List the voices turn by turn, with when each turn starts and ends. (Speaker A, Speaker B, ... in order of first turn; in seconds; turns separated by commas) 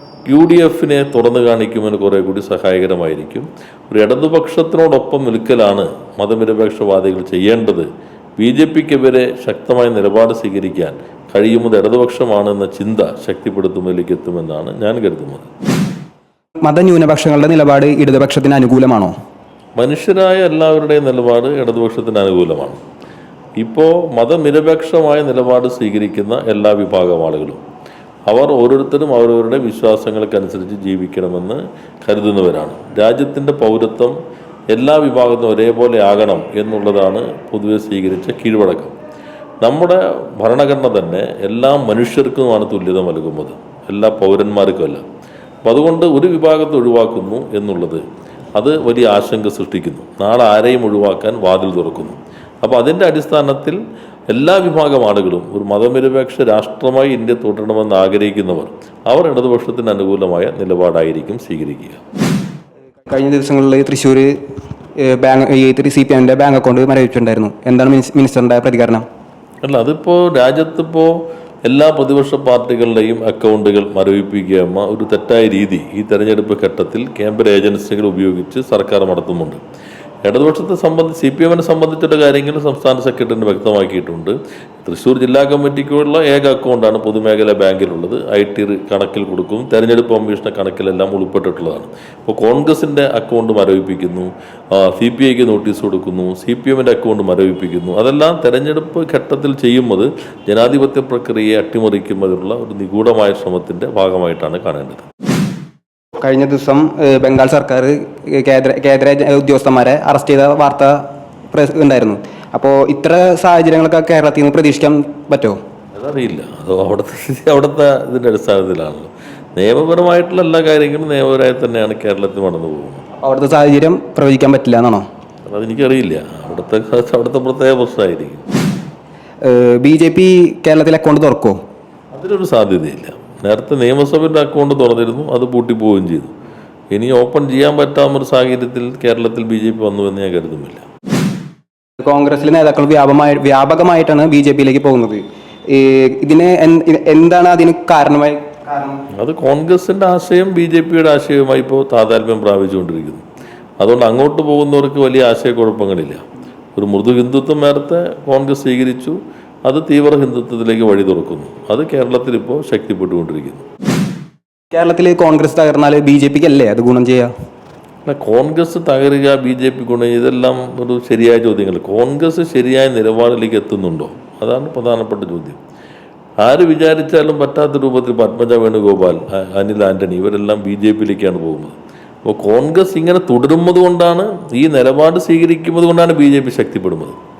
Speaker A: 0.3-15.5, Speaker B: 16.6-19.1, Speaker A: 19.8-22.8, Speaker A: 23.6-27.6, Speaker A: 28.3-34.1, Speaker A: 34.7-39.0, Speaker A: 39.6-45.0, Speaker A: 45.6-53.8, Speaker A: 54.3-62.0, Speaker B: 63.1-64.3, Speaker B: 65.0-69.0, Speaker A: 69.6-79.6, Speaker A: 80.2-105.0, Speaker B: 106.2-115.6, Speaker A: 115.9-123.0, Speaker B: 123.2-125.0, Speaker A: 125.5-128.5, Speaker B: 129.4-131.6, Speaker A: 132.1-136.3, Speaker A: 136.9-140.8, Speaker B: 142.0-149.0, Speaker A: 149.2-153.2, Speaker A: 153.8-156.2, Speaker A: 156.8-163.6, Speaker B: 164.7-167.3, Speaker A: 168.1-175.6, Speaker A: 176.4-187.2